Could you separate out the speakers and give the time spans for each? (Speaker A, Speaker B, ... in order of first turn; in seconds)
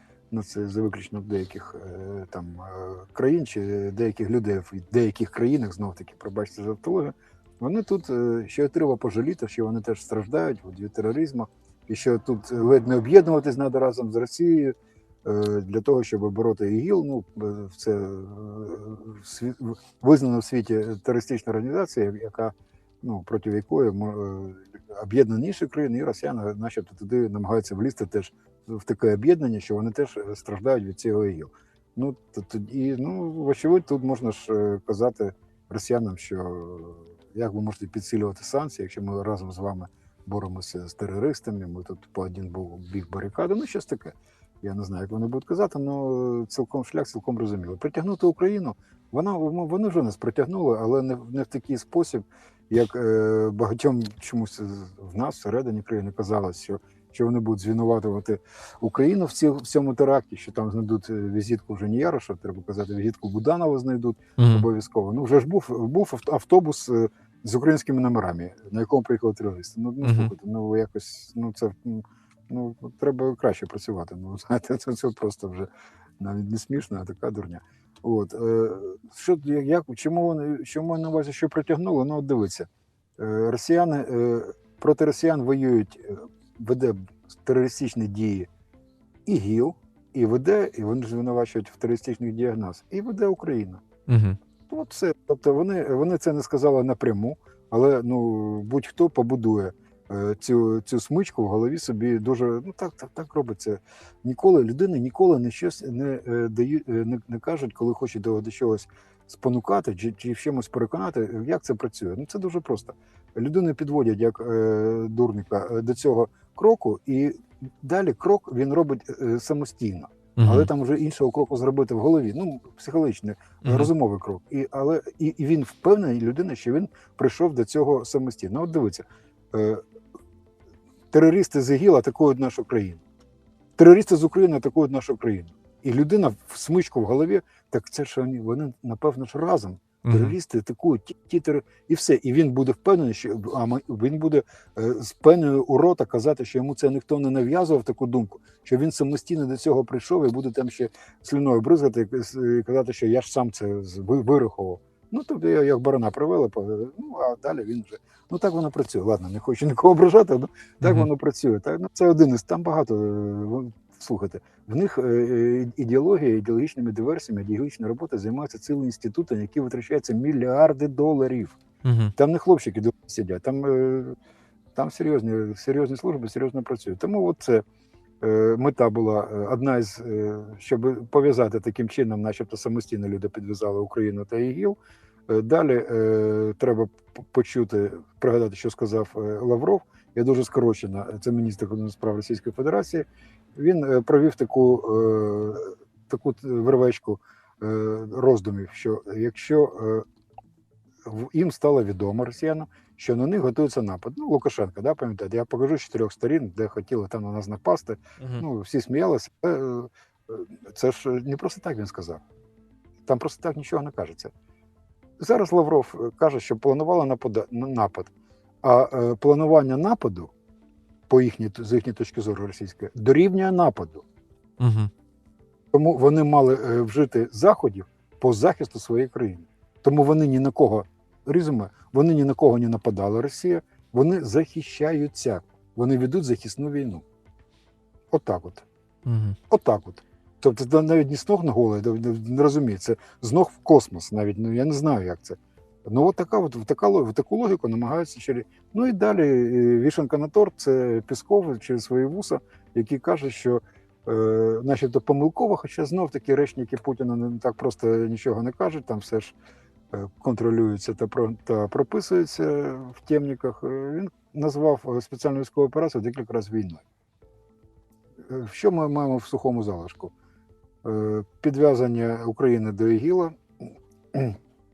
Speaker A: 0.3-14.7, 15.2-75.7, 76.2-82.7, 83.2-88.5, 89.2-93.8, 94.7-129.8, 131.1-133.0, 133.8-171.6, 172.2-174.2, 174.7-177.6, 178.2-184.8, 185.3-200.0, 201.0-212.2, 213.1-214.3, 215.2-218.1, 218.6-220.3, 221.1-224.0, 225.7-237.0, 238.1-238.6, 239.5-259.3, 259.9-266.8, 268.3-270.1, 270.8-273.4
Speaker B: 64.4-64.7, 70.0-70.3, 94.1-94.4, 120.4-120.7, 123.6-123.9, 140.0-140.4, 160.8-161.1, 171.8-172.1, 208.2-208.4, 224.6-224.9, 239.1-239.4